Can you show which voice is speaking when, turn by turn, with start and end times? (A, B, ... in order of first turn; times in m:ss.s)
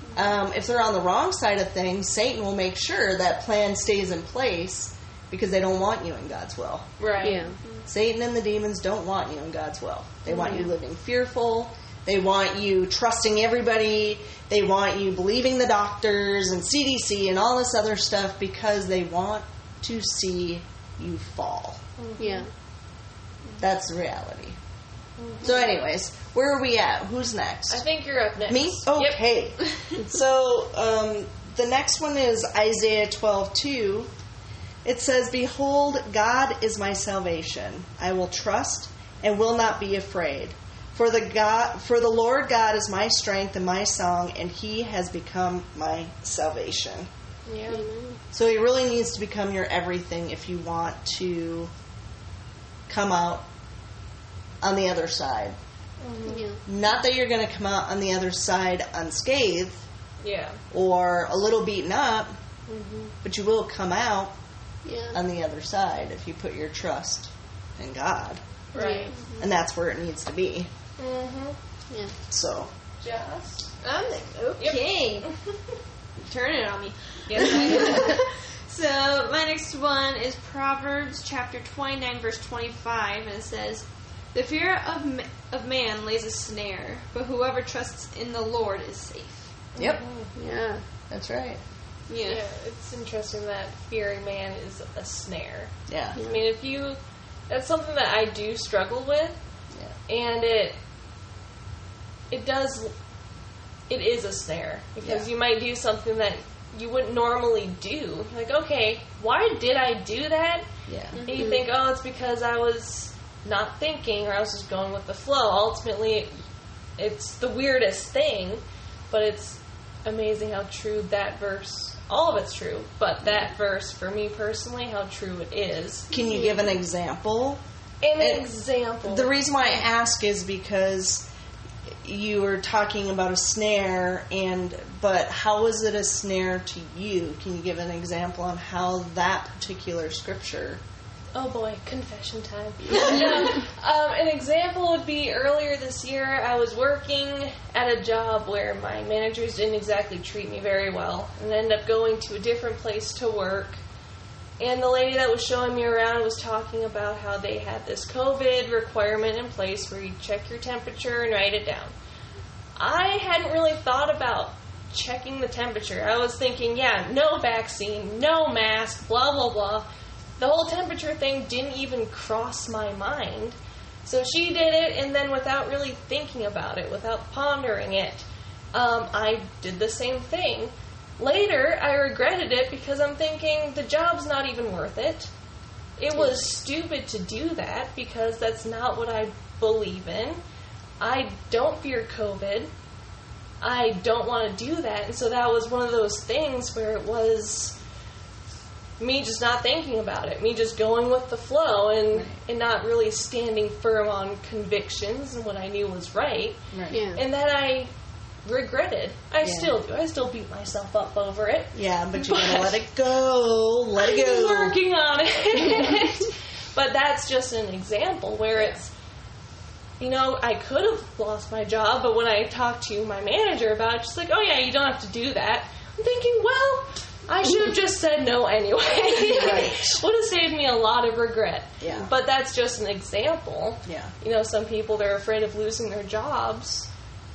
0:00.2-0:06.9 A
0:07.0-0:07.5 B
0:07.2-0:07.6 C
0:07.9-0:21.8 A
0:10.3-0:10.7 C
0:22.0-0:22.5 B
0:22.2-0:22.5 C
0:23.6-0:24.6 A
0:25.2-0:25.7 B
0:25.4-0:27.8 A
0:27.7-0:29.2 B
0:28.5-0:34.1 A
0:34.8-0:47.1 A
0:47.5-0:47.8 B
0:47.7-0:48.2 C
0:48.3-0:51.7 A
0:52.9-0:53.5 A
0:54.6-0:55.6 A
0:56.0-0:56.5 B
0:56.3-0:56.6 C
0:56.6-0:59.8 A
1:00.2-1:00.6 B
1:00.7-1:02.3 A
1:02.7-1:03.1 B
1:03.2-1:04.3 A
1:04.8-1:05.2 C
1:05.1-1:08.4 A
1:08.7-1:09.1 B
1:08.7-1:09.1 C
1:09.1-1:09.4 D
1:09.4-1:10.7 A
1:11.0-1:11.6 B
1:12.3-1:12.7 A
1:13.0-1:13.7 B
1:13.8-1:15.3 D
1:14.6-1:15.3 B
1:16.2-1:29.6 D
1:17.3-1:18.2 B
1:29.8-1:30.3 B
1:29.8-1:30.0 A
1:30.4-1:30.8 C
1:31.1-1:31.6 A
1:32.1-1:32.4 D
1:32.2-1:39.4 B
1:35.9-1:36.2 A
1:36.2-1:36.4 C
1:40.1-1:40.8 B
1:42.3-1:42.9 B
1:43.9-1:50.7 B
1:45.0-1:45.3 A
1:50.9-1:51.2 A
1:51.2-1:51.5 D
1:51.3-1:56.3 B
1:51.3-1:51.6 C
1:57.0-2:06.1 B
2:06.1-2:07.6 A
2:08.0-2:09.3 B
2:08.2-2:08.5 A
2:09.0-2:11.3 A
2:12.0-2:20.8 A
2:21.3-2:33.8 B
2:34.6-2:41.9 B
2:42.8-2:49.9 B
2:50.4-3:05.3 B
3:06.0-3:10.4 B
3:11.0-3:12.7 B
3:13.6-3:17.8 B
3:19.0-3:26.6 B
3:26.7-3:27.0 A
3:26.9-3:27.2 C
3:27.1-3:27.9 B
3:28.4-3:32.8 B
3:29.4-3:29.8 A
3:31.7-3:34.8 A
3:34.0-3:38.9 B
3:40.0-3:56.9 B
3:49.2-3:50.0 A
3:51.8-3:52.1 A
3:53.9-3:54.1 A